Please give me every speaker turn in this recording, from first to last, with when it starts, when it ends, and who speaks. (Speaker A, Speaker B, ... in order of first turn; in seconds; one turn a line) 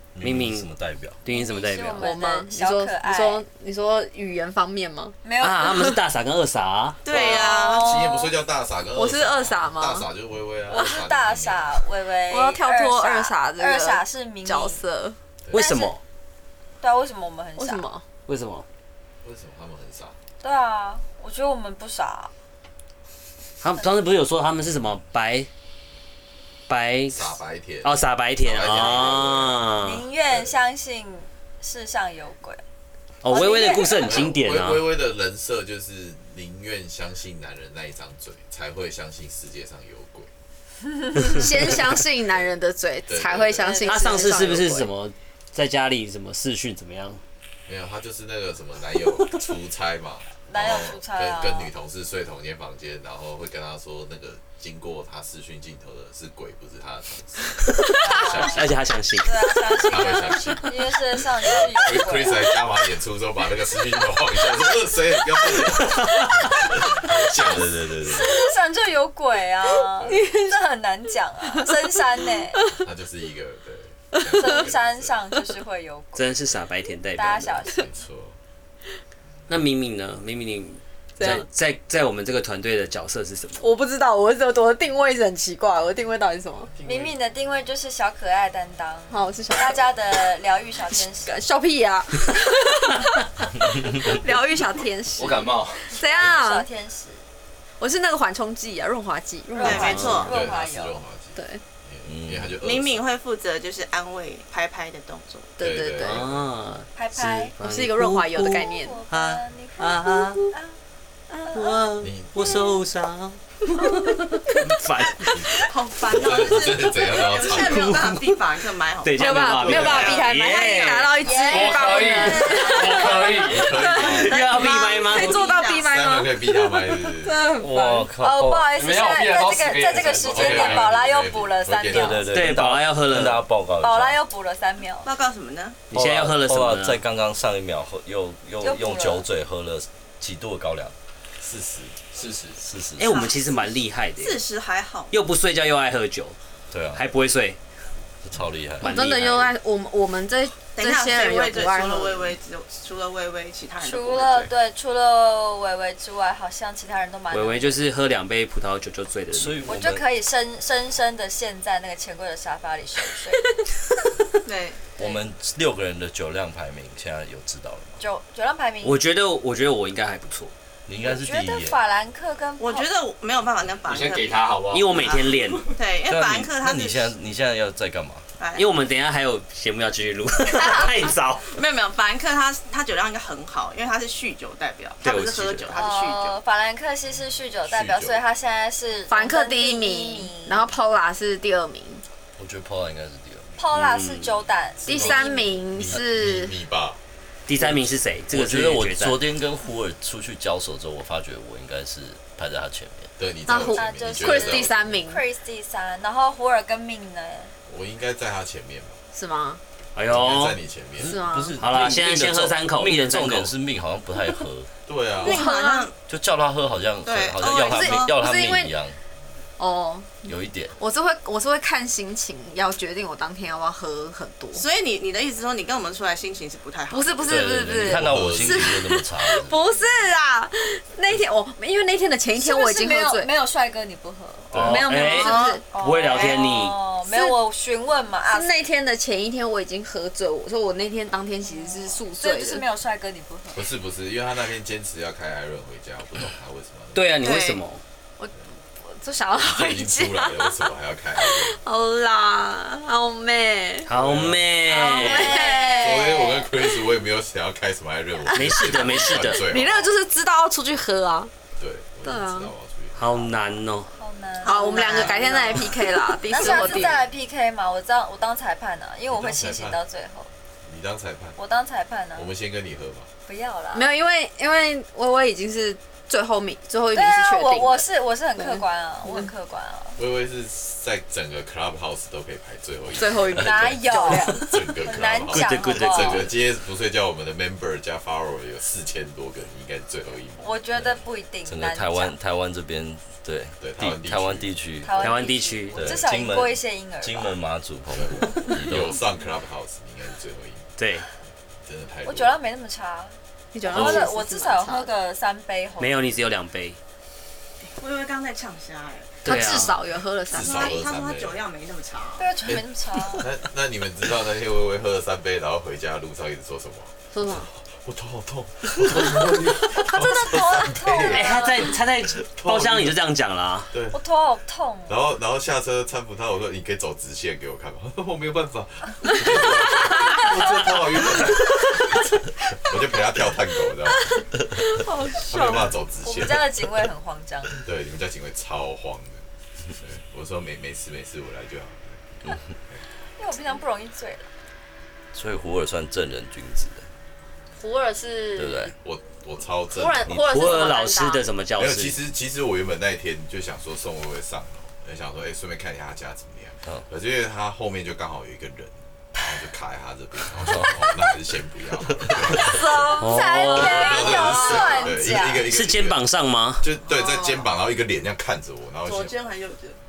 Speaker A: 0.1-1.2
Speaker B: 0.2-0.7
Speaker B: 1.2-2.0
Speaker C: 1.3-3.4
Speaker D: 1.9-5.2
Speaker C: 5.2-5.8
Speaker B: 5.4-7.0
Speaker E: 7.0-8.1
Speaker C: 7.1-8.3
Speaker F: 7.1-11.8
Speaker D: 8.9-10.1
Speaker C: 10.7-14.8
Speaker D: 12.3-15.2
Speaker C: 15.5-15.9
Speaker B: 15.5-16.0
Speaker C: 16.8-17.9
Speaker D: 17.6-18.0
Speaker B: 18.3-18.6
Speaker F: 19.2-20.2
Speaker C: 20.4-22.3
Speaker B: 23.6-25.5
Speaker B: 26.7-27.2
Speaker F: 27.1-29.6
Speaker B: 27.8-30.0
Speaker C: 29.8-32.6
Speaker F: 30.3-30.6
Speaker B: 33.2-34.9
Speaker C: 33.2-34.2
Speaker F: 34.0-40.3
Speaker D: 41.2-44.9
Speaker F: 41.6-41.9
Speaker F: 43.1-43.9
Speaker C: 43.6-44.0
Speaker B: 43.8-47.2
Speaker F: 47.7-58.9
Speaker C: 50.5-51.7
Speaker C: 57.9-58.7
Speaker B: 58.4-59.5
Speaker C: 59.2-62.6
Speaker F: 59.9-60.8
Speaker F: 61.4-68.2
Speaker B: 65.8-66.3
Speaker A: 66.8-68.3
Speaker C: 68.1-72.7
Speaker D: 70.1-70.4
Speaker F: 72.8-75.2
Speaker D: 74.1-74.7
Speaker C: 74.3-76.3
Speaker B: 76.2-77.7
Speaker C: 77.2-77.9
Speaker F: 77.7-78.3
Speaker B: 79.5-83.6
Speaker D: 81.2-81.5
Speaker D: 83.6-86.7
Speaker F: 86.7-87.2
Speaker C: 86.8-91.4
Speaker D: 89.1-89.9
Speaker D: 91.2-93.2
Speaker A: 93.7-94.1
Speaker D: 93.9-96.7
Speaker G: 95.2-95.9
Speaker C: 95.9-97.2
Speaker D: 97.8-100.1
Speaker C: 99.5-101.0
Speaker E: 99.6-100.3
Speaker B: 99.7-100.3
Speaker F: 100.0-103.1
Speaker D: 101.3-101.6
Speaker A: 102.0-102.6
Speaker E: 102.6-105.5
Speaker D: 105.6-106.2
Speaker F: 105.6-106.5
Speaker B: 106.0-110.5
Speaker C: 107.0-107.5
Speaker D: 107.6-109.0
Speaker C: 108.3-110.8
Speaker D: 111.3-111.7
Speaker B: 111.5-115.4
Speaker F: 112.0-112.6
Speaker E: 115.6-120.2
Speaker F: 116.1-118.1
Speaker B: 117.5-118.4
Speaker B: 119.0-121.2
Speaker D: 119.2-128.1
Speaker F: 119.6-120.2
Speaker C: 121.2-123.3
Speaker G: 121.5-123.9
Speaker F: 123.5-124.6
Speaker B: 124.0-125.4
Speaker E: 124.3-126.0
Speaker F: 125.8-127.5
Speaker A: 127.5-128.7
Speaker C: 128.1-132.2
Speaker G: 128.7-130.9
Speaker F: 130.2-132.3
Speaker A: 131.9-134.2
Speaker B: 132.3-133.4
Speaker C: 133.8-135.1
Speaker E: 135.0-135.8
Speaker B: 135.9-137.0
Speaker A: 135.9-140.9
Speaker C: 138.6-139.2
Speaker F: 141.4-142.0
Speaker G: 142.1-142.6
Speaker A: 142.6-143.2
Speaker B: 143.0-144.4
Speaker E: 143.0-145.1
Speaker B: 145.1-146.3
Speaker A: 146.7-147.0
Speaker B: 146.9-147.6
Speaker A: 148.2-148.9
Speaker B: 148.8-149.5
Speaker D: 148.8-152.3
Speaker E: 150.8-154.5
Speaker C: 153.8-157.8
Speaker B: 157.3-159.6
Speaker A: 159.3-160.0
Speaker C: 159.7-163.6
Speaker E: 164.4-164.8
Speaker A: 165.0-168.0
Speaker C: 168.0-169.0
Speaker B: 168.8-170.5
Speaker A: 170.8-171.8
Speaker C: 171.0-172.9
Speaker E: 172.6-177.1
Speaker G: 173.9-175.1
Speaker B: 174.7-175.7
Speaker A: 176.1-178.2
Speaker E: 178.4-178.7
Speaker B: 178.6-181.5
Speaker E: 180.6-180.9
Speaker E: 181.4-186.3
Speaker B: 185.0-185.7
Speaker C: 185.7-190.8
Speaker F: 187.7-188.2
Speaker D: 189.1-192.0
Speaker A: 192.4-193.6
Speaker C: 193.6-195.6
Speaker B: 193.7-194.3
Speaker D: 194.8-196.5
Speaker F: 194.9-197.0
Speaker B: 197.5-199.2
Speaker A: 197.6-203.1
Speaker F: 203.2-205.0
Speaker D: 203.4-205.2
Speaker C: 203.5-207.5
Speaker F: 207.7-209.0
Speaker D: 209.1-209.6
Speaker B: 209.9-210.6
Speaker F: 210.1-211.2
Speaker A: 211.0-214.7
Speaker D: 211.0-211.6
Speaker B: 211.6-213.5
Speaker F: 214.9-215.4
Speaker D: 215.2-215.9
Speaker E: 215.2-215.9
Speaker A: 216.1-219.0
Speaker E: 217.0-218.0
Speaker D: 217.4-218.8
Speaker D: 219.6-224.6
Speaker A: 220.2-220.8
Speaker E: 224.5-227.6
Speaker D: 226.9-233.3
Speaker A: 227.2-229.6
Speaker F: 227.8-228.8
Speaker C: 229.7-230.1
Speaker C: 232.3-234.5
Speaker A: 234.5-234.8
Speaker D: 234.5-235.6
Speaker B: 234.5-236.8
Speaker E: 235.1-235.6
Speaker C: 235.7-238.6
Speaker D: 237.0-237.4
Speaker D: 238.3-242.6
Speaker C: 241.4-243.7
Speaker F: 243.6-247.2
Speaker B: 246.9-247.8
Speaker E: 247.2-247.6
Speaker D: 248.8-253.9
Speaker F: 249.3-251.6
Speaker B: 253.8-255.4
Speaker F: 253.9-254.5
Speaker C: 254.7-256.5
Speaker D: 254.7-256.3
Speaker F: 255.8-259.9
Speaker D: 258.3-261.3
Speaker B: 258.3-259.5
Speaker F: 261.6-263.5
Speaker D: 262.0-262.5
Speaker B: 262.9-263.9
Speaker C: 264.0-265.6
Speaker E: 264.4-266.4
Speaker D: 264.4-267.0
Speaker C: 266.3-270.3
Speaker F: 266.4-266.9
Speaker F: 269.1-269.8
Speaker F: 270.6-271.4
Speaker C: 271.4-272.3
Speaker F: 272.1-273.1
Speaker C: 273.3-273.9
Speaker D: 273.7-279.3
Speaker C: 276.9-280.0
Speaker F: 280.0-283.5
Speaker D: 282.9-284.8
Speaker A: 283.3-284.1
Speaker C: 283.3-286.3
Speaker F: 284.4-290.9
Speaker A: 285.3-286.3
Speaker B: 285.5-285.8
Speaker C: 290.4-292.1
Speaker A: 291.4-295.2
Speaker F: 293.6-294.5
Speaker C: 294.8-297.4
Speaker B: 295.0-295.9
Speaker A: 295.7-299.0
Speaker F: 297.9-300.7
Speaker B: 300.8-301.1
Speaker F: 301.6-302.4
Speaker C: 302.0-306.1
Speaker D: 303.5-304.9
Speaker B: 303.7-304.0
Speaker B: 305.8-306.8
Speaker E: 307.8-309.2
Speaker B: 309.2-309.8
Speaker D: 309.2-310.8
Speaker F: 310.3-311.4
Speaker E: 310.3-312.3
Speaker C: 312.2-313.2
Speaker F: 313.1-321.6
Speaker D: 317.1-317.5
Speaker C: 319.8-321.7
Speaker B: 321.1-323.7
Speaker F: 322.2-322.9
Speaker F: 323.7-324.0
Speaker C: 323.9-325.0
Speaker F: 324.9-334.2
Speaker D: 334.6-335.7
Speaker F: 335.2-336.5
Speaker C: 336.0-337.6
Speaker F: 337.6-339.2
Speaker F: 339.8-342.0
Speaker C: 343.2-344.3
Speaker A: 345.1-346.9
Speaker D: 347.6-348.7
Speaker A: 348.4-348.7
Speaker F: 348.8-350.6
Speaker D: 349.7-351.2
Speaker B: 350.2-352.0
Speaker F: 351.6-366.0
Speaker A: 360.3-360.9
Speaker A: 361.9-362.5
Speaker D: 362.5-364.9
Speaker C: 362.5-365.5
Speaker B: 363.0-364.0
Speaker B: 365.5-366.7
Speaker F: 366.6-369.2
Speaker E: 366.9-367.4
Speaker E: 368.8-369.8